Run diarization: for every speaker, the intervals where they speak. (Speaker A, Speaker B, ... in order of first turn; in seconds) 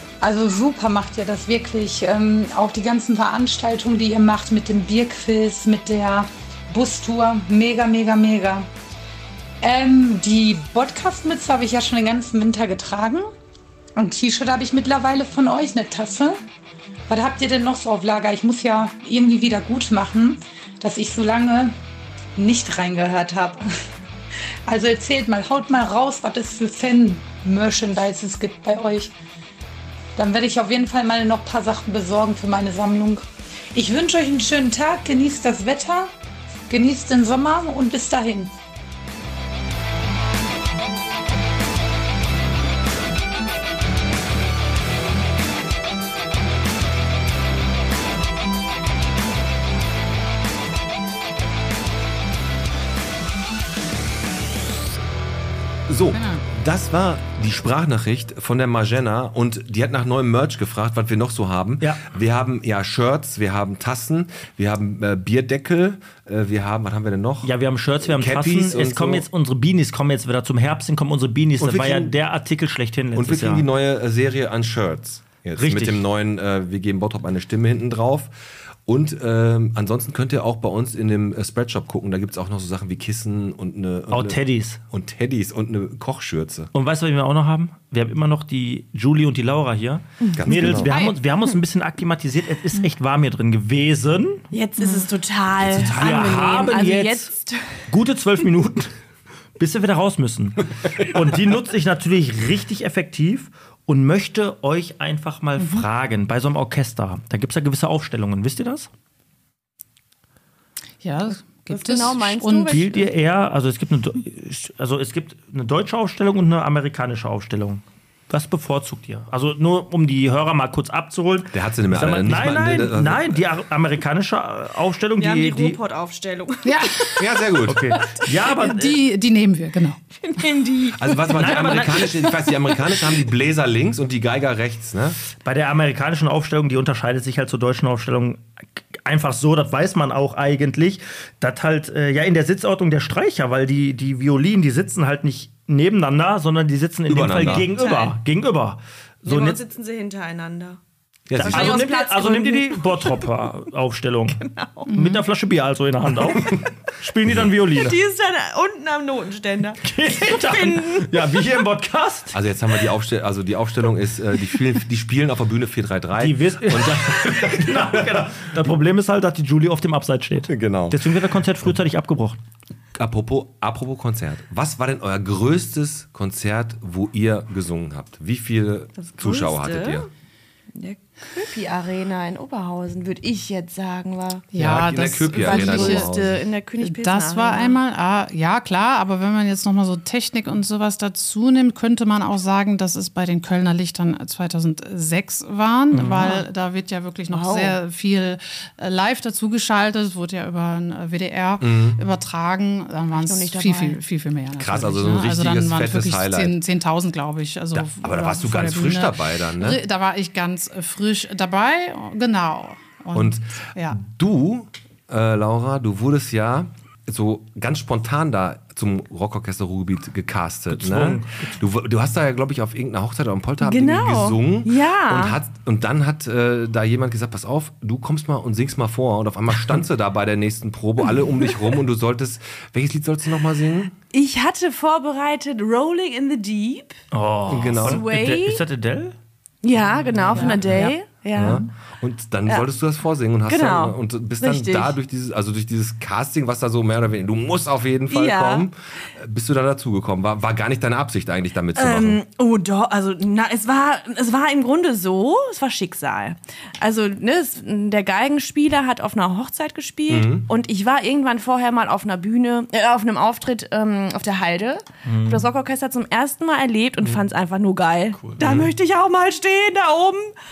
Speaker A: 0.2-8.7, 9.6-13.3, 13.9-16.4, 17.1-21.7, 22.4-23.7, 24.7-29.1, 30.2-36.1, 36.7-38.5
Speaker B: 55.9-67.5, 68.0-69.2, 71.6-72.1, 73.1-78.3, 78.8-86.7, 90.4-90.9, 95.6-96.1, 121.5-123.4, 127.2-127.9, 130.9-135.2, 147.1-147.7, 151.3-151.8, 162.3-168.4, 170.5-171.1, 172.9-180.1, 184.6-186.4, 201.6-202.0, 204.6-206.6, 207.8-209.8, 213.1-233.9, 237.5-238.1, 240.8-252.2, 260.1-260.4, 268.4-268.7
Speaker C: 56.1-56.4, 90.7-91.2, 111.0-112.9, 126.6-127.3, 127.9-130.0, 154.9-155.2, 184.5-186.1, 186.8-214.0, 240.4-240.8
Speaker D: 67.4-73.7, 75.6-76.0, 84.1-84.8, 86.7-94.5, 95.8-97.3, 97.9-98.9, 99.6-108.9, 112.7-125.8, 127.7-129.0, 131.3-132.2, 135.4-149.6, 151.4-154.4, 154.9-158.0, 159.8-162.4, 166.2-172.4, 195.9-196.4, 220.7-221.6, 237.1-239.2, 240.3-240.9, 265.0-265.4
Speaker E: 94.5-97.9, 111.7-113.1, 125.2-127.1, 130.2-133.2, 147.4-148.2, 149.2-150.8, 151.4-153.3, 154.4-154.9, 157.8-161.1, 179.0-180.1, 180.8-184.5, 185.4-187.8, 197.3-197.8, 203.1-204.0, 223.6-225.4, 231.2-231.6, 234.1-237.0, 237.7-238.6, 239.6-241.7, 243.5-244.9, 248.1-248.7, 251.7-270.3